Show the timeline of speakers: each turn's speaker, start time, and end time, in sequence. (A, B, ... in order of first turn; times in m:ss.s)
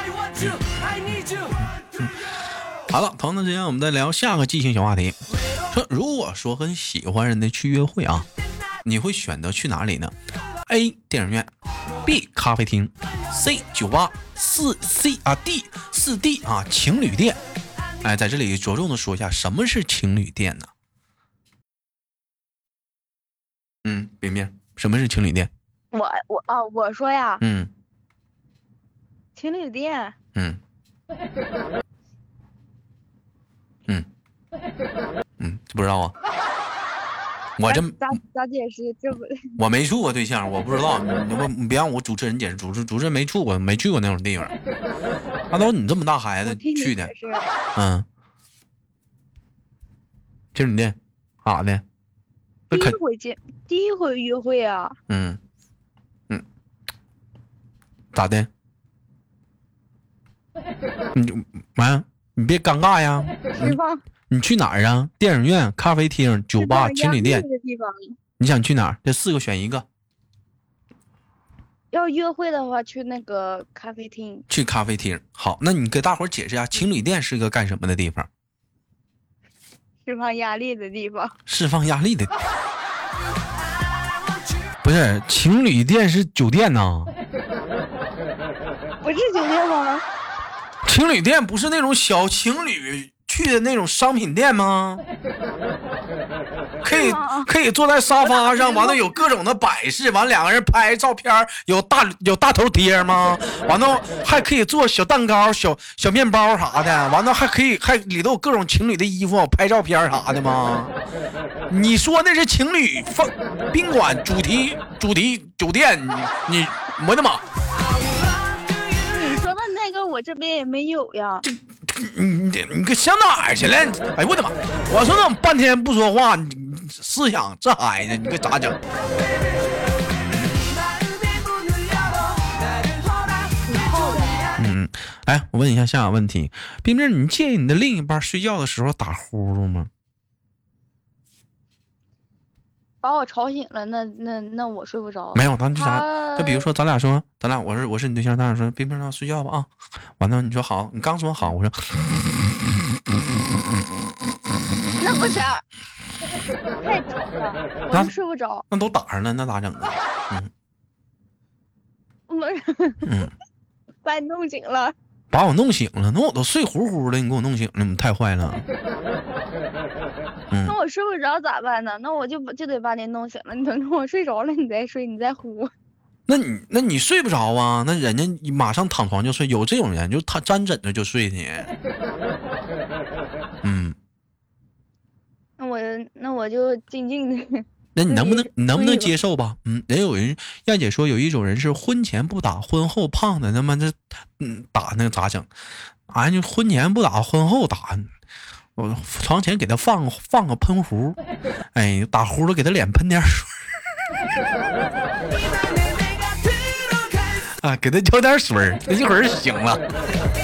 0:00.3-0:08.3 A
0:08.8-0:10.1 A
0:10.6-0:11.5 A
0:12.0-0:17.4 A
0:18.0-0:20.7 A
0:23.8-0:25.5 A
0:25.9-0:27.4 B
0:27.4-0:27.7 A
0:29.4-0:30.2 B
0:30.3-0:30.6 A
0:35.4-0:36.1 A
0:37.6-0:38.1 A
0:37.7-0:39.6 B
0:39.6-0:44.5 A
0:45.5-0:47.1 A
0:46.4-0:47.5 B
0:47.7-0:48.0 A
0:50.5-0:51.8 A
0:52.7-0:53.0 A
0:52.7-0:55.0 B
0:55.1-0:55.4 A
0:58.1-0:58.5 A
1:01.1-1:03.8 A
1:03.5-1:04.0 B
1:04.3-1:07.4 A
1:06.6-1:08.2 B
1:08.4-1:09.8 A
1:11.9-1:14.4 B
1:14.5-1:18.3 A
1:20.0-1:21.4 B
1:21.5-1:22.4 A
1:24.8-1:27.1 A
1:29.0-1:30.0 B
1:30.8-1:35.0 A
1:36.8-1:50.9 A
1:36.8-1:37.5 B
1:38.2-1:39.3 B
1:51.7-1:57.4 A
1:58.9-2:01.4 B
2:01.4-2:08.8 A
2:13.6-2:14.5 B
2:14.6-2:19.9 A
2:23.0-2:26.7 B
2:25.3-2:32.8 A
2:35.0-2:35.6 B
2:36.8-2:38.6 B
2:38.7-2:40.5 A
2:42.3-2:43.1 B
2:43.0-2:43.3 A
2:44.0-2:44.9 B
2:45.3-2:48.6 A
2:50.5-2:50.8 A
2:50.6-2:55.7 B
2:56.3-3:01.7 A
3:03.6-3:04.0 A
3:05.6-3:09.1 B
3:07.9-3:15.5 A
3:16.1-3:18.1 A
3:18.8-3:21.2 A
3:21.7-3:23.6 A
3:27.2-3:29.8 A